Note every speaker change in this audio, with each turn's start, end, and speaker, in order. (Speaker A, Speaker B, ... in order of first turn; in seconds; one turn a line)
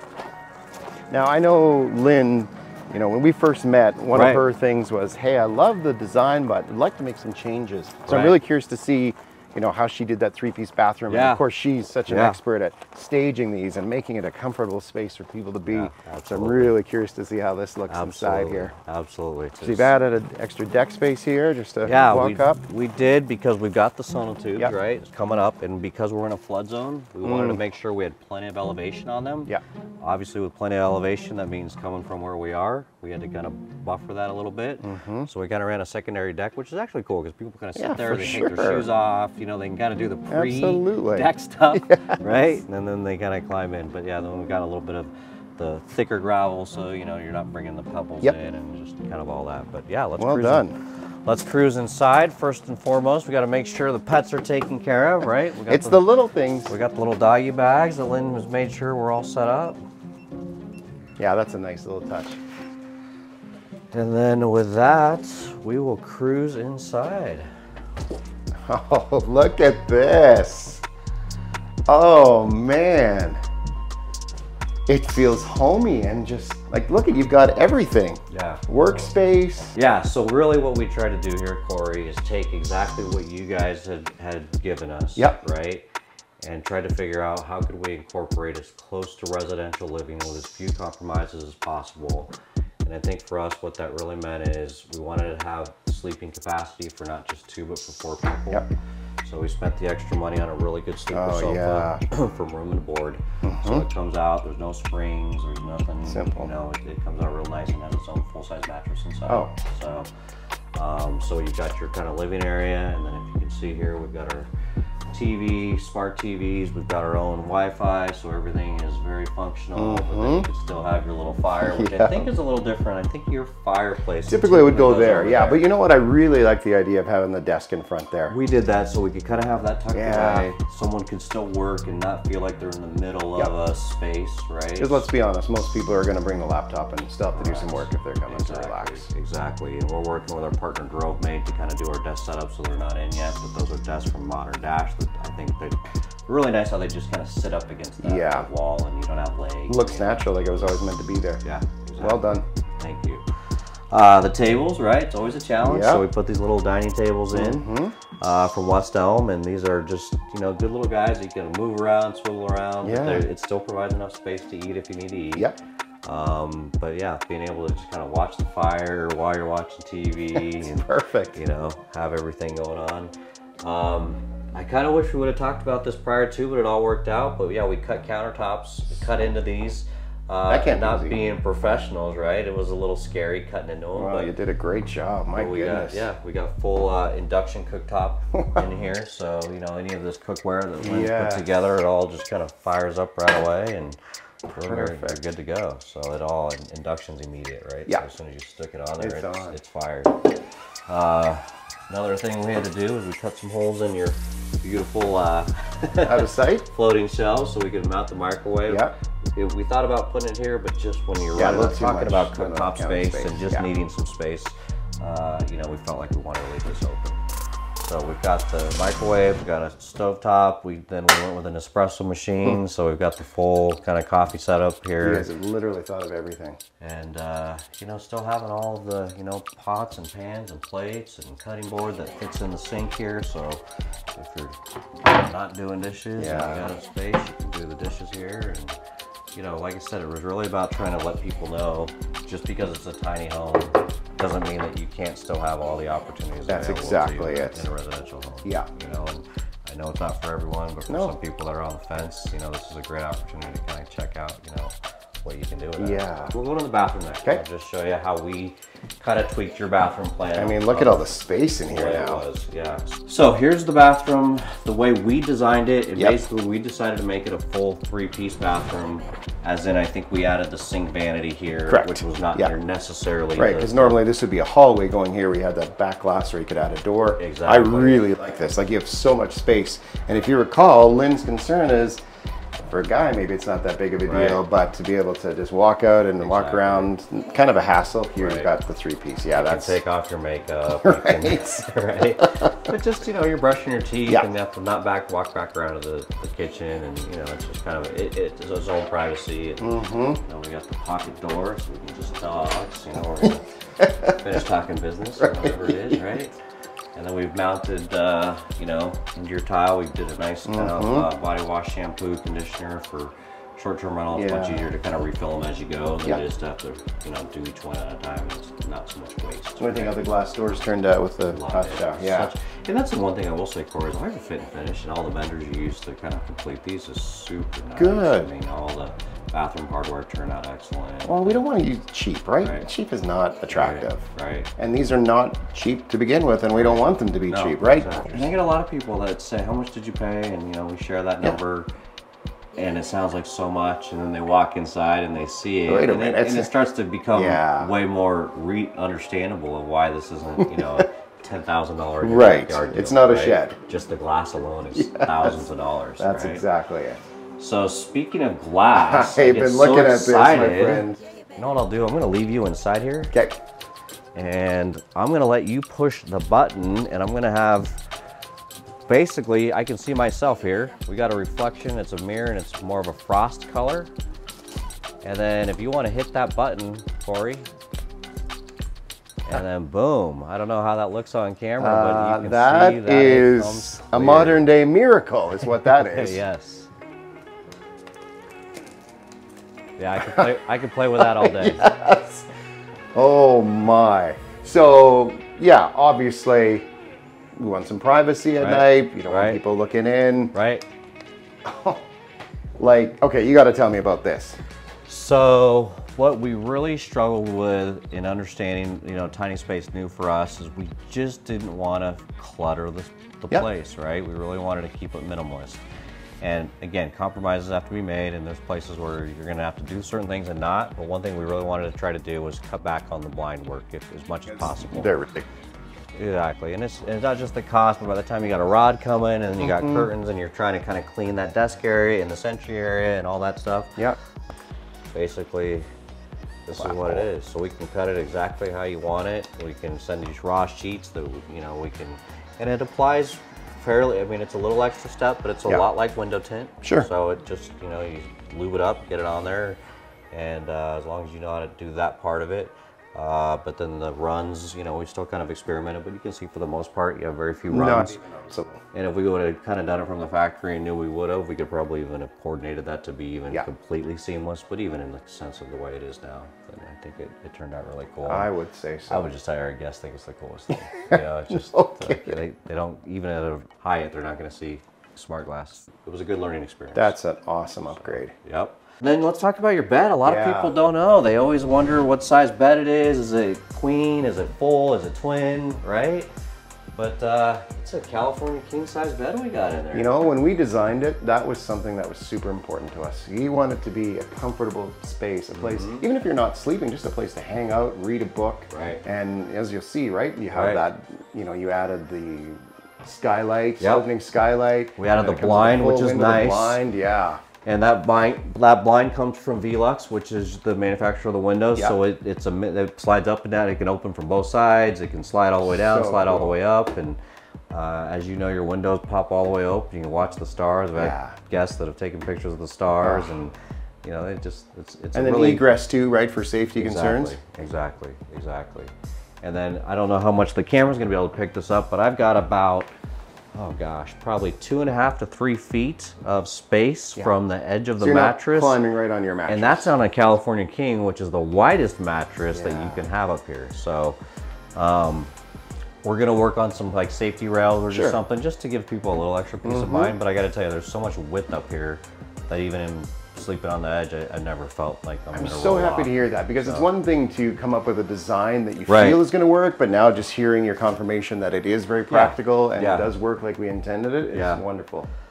Speaker A: 1.1-18.7
Speaker B: 4.1-4.5
Speaker B: 8.1-8.4
Speaker B: 11.1-11.4
Speaker B: 12.1-12.4
Speaker B: 15.7-16.8
Speaker B: 17.9-19.9
Speaker A: 19.6-22.6
Speaker B: 21.9-50.7
Speaker A: 27.2-27.6
Speaker A: 34.8-35.3
Speaker A: 37.8-38.9
Speaker A: 40.3-42.3
Speaker A: 50.2-50.8
Speaker B: 51.3-56.0
Speaker A: 55.7-56.8
Speaker B: 56.7-59.8
Speaker A: 61.2-62.4
Speaker B: 63.9-67.5
Speaker A: 68.7-70.8
Speaker A: 71.9-73.4
Speaker A: 74.9-79.7
Speaker B: 78.3-79.1
Speaker B: 79.7-85.9
Speaker B: 86.4-92.3
Speaker B: 92.8-98.7
Speaker B: 99.2-110.1
Speaker A: 101.1-102.0
Speaker A: 103.4-103.9
Speaker A: 106.0-106.5
Speaker A: 109.3-109.5
Speaker B: 110.8-114.5
Speaker B: 115.1-125.7
Speaker A: 119.8-120.5
Speaker A: 121.6-122.3
Speaker A: 124.3-128.4
Speaker B: 128.3-135.1
Speaker A: 129.9-130.5
Speaker A: 134.8-139.1
Speaker B: 137.3-150.3
Speaker A: 148.0-148.5
Speaker A: 149.7-151.4
Speaker B: 151.4-153.2
Speaker A: 152.0-152.5
Speaker B: 153.9-157.6
Speaker A: 155.6-156.1
Speaker A: 157.3-157.9
Speaker B: 158.2-165.5
Speaker A: 162.8-163.3
Speaker B: 166.1-184.3
Speaker A: 170.3-171.4
Speaker A: 180.5-181.2
Speaker A: 183.9-186.1
Speaker B: 185.3-200.3
Speaker A: 190.8-191.5
Speaker A: 194.5-195.2
Speaker A: 199.0-199.6
Speaker B: 200.9-217.2
Speaker A: 206.0-206.7
Speaker A: 208.7-208.9
Speaker A: 211.3-213.7
Speaker B: 217.8-225.3
Speaker A: 225.0-226.6
Speaker B: 226.8-233.6
Speaker B: 234.2-238.8
Speaker A: 236.2-236.8
Speaker B: 239.3-274.0
Speaker A: 246.5-247.7
Speaker A: 250.9-251.2
Speaker A: 255.8-256.4
Speaker A: 260.3-262.2
Speaker A: 271.7-272.5
Speaker A: 273.4-282.0
Speaker B: 277.2-278.1
Speaker A: 282.7-289.8
Speaker B: 284.1-284.4
Speaker B: 286.2-286.9
Speaker B: 288.2-288.5
Speaker B: 289.3-303.4
Speaker A: 290.8-291.7
Speaker A: 299.6-300.2
Speaker A: 303.8-304.2
Speaker B: 304.1-306.3
Speaker A: 305.2-306.0
Speaker B: 307.0-320.1
Speaker A: 310.5-311.1
Speaker A: 314.1-314.7
Speaker A: 319.6-322.3
Speaker B: 321.3-331.4
Speaker A: 327.8-328.3
Speaker A: 331.1-334.0
Speaker B: 332.4-332.7
Speaker B: 333.5-334.5
Speaker A: 334.6-338.3
Speaker B: 336.5-341.7
Speaker B: 342.6-356.5
Speaker A: 345.7-346.5
Speaker A: 347.1-347.7
Speaker A: 350.4-350.9
Speaker A: 352.0-353.6
Speaker A: 354.7-355.4
Speaker A: 356.0-357.0
Speaker B: 357.4-363.1
Speaker A: 358.7-361.0
Speaker A: 363.1-363.4
Speaker B: 364.1-367.8
Speaker B: 368.9-373.9
Speaker B: 375.0-377.5
Speaker B: 379.3-384.5
Speaker A: 381.6-386.2
Speaker B: 385.7-386.7
Speaker B: 389.8-391.7
Speaker A: 390.0-390.3
Speaker A: 391.0-392.3
Speaker A: 392.9-396.7
Speaker A: 397.4-400.4
Speaker B: 398.4-399.4
Speaker B: 400.3-400.6
Speaker A: 401.4-401.8
Speaker A: 402.6-404.4
Speaker B: 404.9-415.6
Speaker B: 416.2-424.9
Speaker A: 424.3-425.3
Speaker B: 425.9-433.8
Speaker A: 429.4-429.9
Speaker B: 434.9-435.7
Speaker B: 436.5-449.6
Speaker A: 436.6-437.1
Speaker A: 446.6-446.9
Speaker B: 450.1-458.0
Speaker A: 457.5-458.6
Speaker B: 458.7-468.3
Speaker A: 468.1-469.1
Speaker B: 468.9-477.0
Speaker A: 470.5-472.2
Speaker A: 476.7-478.1
Speaker B: 477.6-486.1
Speaker A: 480.1-480.6
Speaker B: 486.7-490.0
Speaker A: 489.7-507.2
Speaker B: 495.3-495.9
Speaker B: 498.5-498.8
Speaker B: 500.3-500.6
Speaker B: 503.6-503.9
Speaker B: 504.8-506.6
Speaker B: 507.4-517.0
Speaker A: 515.4-516.4
Speaker B: 517.5-525.5
Speaker A: 520.8-521.2
Speaker A: 522.8-523.1
Speaker A: 525.0-527.2
Speaker B: 526.6-532.7
Speaker B: 533.3-538.6
Speaker A: 537.8-539.8
Speaker B: 539.3-544.0
Speaker A: 542.3-542.9
Speaker B: 544.6-545.1
Speaker B: 545.8-556.7
Speaker A: 547.7-548.0
Speaker A: 549.4-550.0
Speaker A: 555.1-564.9
Speaker B: 558.7-559.0
Speaker B: 561.9-562.9
Speaker B: 564.1-564.4